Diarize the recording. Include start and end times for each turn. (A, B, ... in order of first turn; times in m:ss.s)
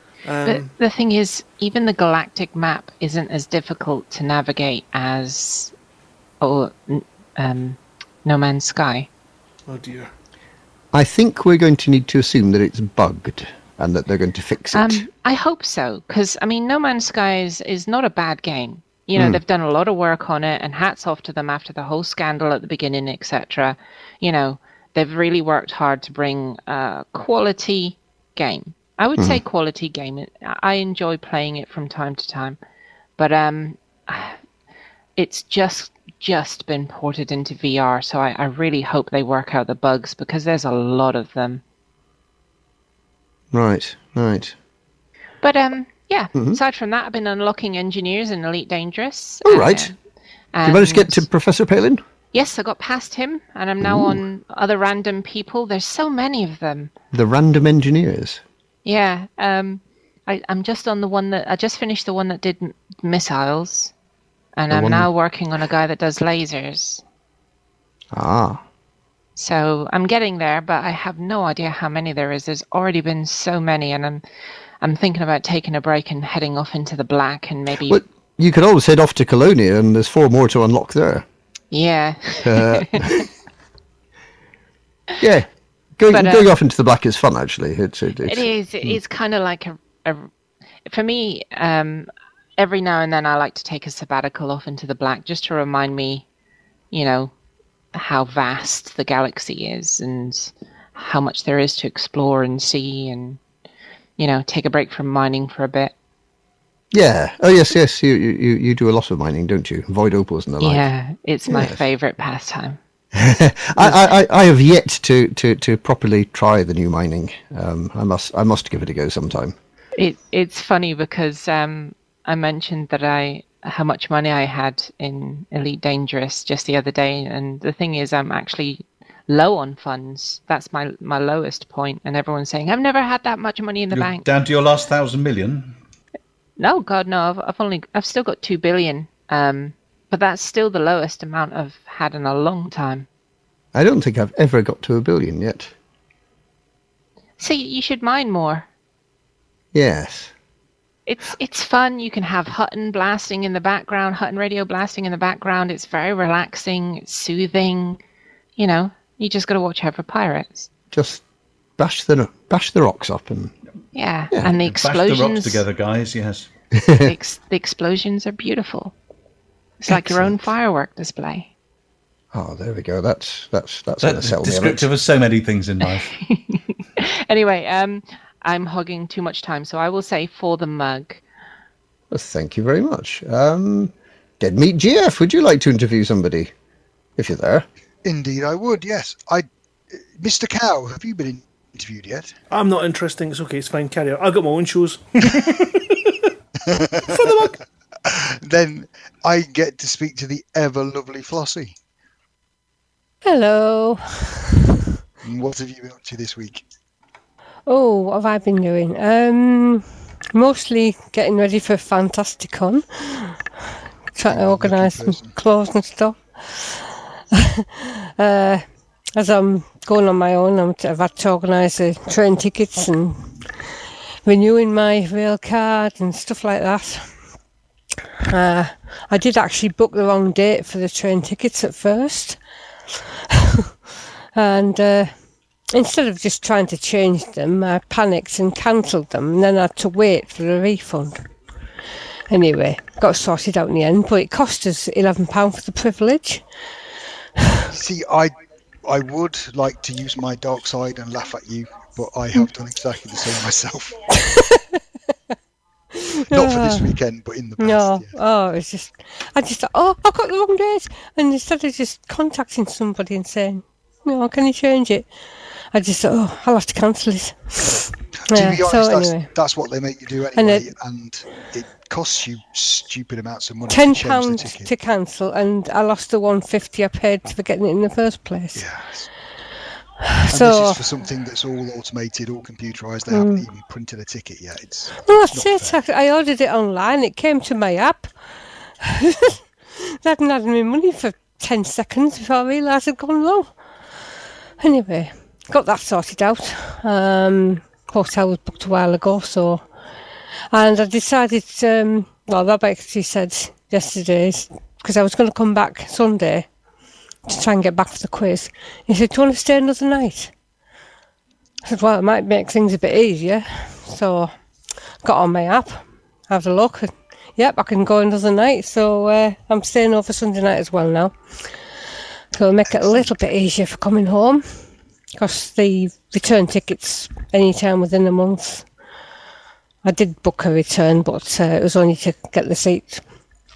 0:00.2-0:00.7 A
0:00.4-0:05.7 B
0:06.4-0:09.1 B
0:09.7-0:10.1 A
0:10.9-0:15.0 C
0:14.7-0:32.6 B
0:29.2-0:29.4 C
0:33.2-0:34.4 B
0:35.2-0:41.6 B
0:43.5-0:44.5 C
0:45.4-0:49.9 B
0:49.4-0:49.9 C
0:50.5-0:51.2 B
0:50.6-0:52.0 C
0:52.3-0:56.9 B
0:53.8-0:54.2 C
0:57.1-0:58.4 C
0:58.8-1:03.9 B
1:04.6-1:07.0 B
1:04.7-1:05.1 C
1:08.1-1:08.6 C
1:09.4-1:14.2 B
1:14.8-1:18.0 B
1:17.8-1:21.2 C
1:21.7-1:23.1 B
1:22.4-1:23.2 C
1:25.2-1:25.5 C
1:26.0-1:29.0 C
1:26.1-1:26.5 B
1:28.2-1:30.3 B
1:30.8-1:36.2 B
1:36.9-1:37.3 B
1:37.9-1:43.4 B
1:44.2-1:45.9 B
1:46.9-1:50.9 C
1:50.6-1:52.8 B
1:51.5-1:51.8 C
1:53.1-1:59.6 C
1:53.8-1:54.1 B
2:00.0-2:14.2 B
2:13.9-2:15.8 D
2:16.6-2:23.1 B
2:23.7-2:25.7 C
2:27.4-2:28.7 B
2:29.7-2:30.3 C
2:31.1-2:38.0 B
2:38.6-2:40.7 B
2:40.9-2:41.2 C
2:41.8-2:43.5 C
2:43.9-2:45.6 B
2:44.6-2:46.5 D
2:46.7-2:47.1 C
2:47.0-2:48.9 B
2:49.8-2:51.5 B
2:49.9-2:50.5 C
2:52.3-2:54.9 C
2:54.0-2:56.1 D
2:55.8-3:01.2 B
3:02.1-3:06.5 C
3:07.2-3:07.6 C
3:08.0-3:12.3 E
3:12.5-3:16.2 A
3:16.7-3:17.3 E
3:17.0-3:17.6 A
3:18.0-3:21.7 E
3:23.2-3:24.7 F
3:25.2-3:26.6 E
3:27.7-3:33.5 F
3:34.1-3:38.6 F
3:34.2-3:35.4 E
3:39.2-3:43.3 F
3:44.2-3:47.1 F
3:48.3-3:52.4 F
3:53.3-3:53.7 F
3:54.3-3:55.1 F
3:55.7-4:01.2 F
4:02.3-4:06.4 F
4:07.7-4:08.3 E
4:08.8-4:14.0 E
4:14.1-4:14.7 F
4:15.9-4:16.9 F
4:16.3-4:18.1 E
4:17.6-4:25.1 F
4:25.7-4:29.3 F
4:28.2-4:34.7 E
4:30.3-4:30.7 F
4:33.7-4:38.6 F
4:38.5-4:39.1 E
4:40.0-4:40.8 F
4:40.3-4:45.8 E
4:43.1-4:43.4 F
4:45.0-4:48.1 F
4:48.8-4:53.5 F
4:54.6-4:59.6 F
5:00.5-5:06.5 F
5:07.2-5:10.3 F
5:11.6-5:14.3 F
5:15.0-5:21.2 F
5:22.3-5:24.6 F
5:22.7-5:23.1 E
5:25.2-5:28.7 F
5:29.8-5:33.0 F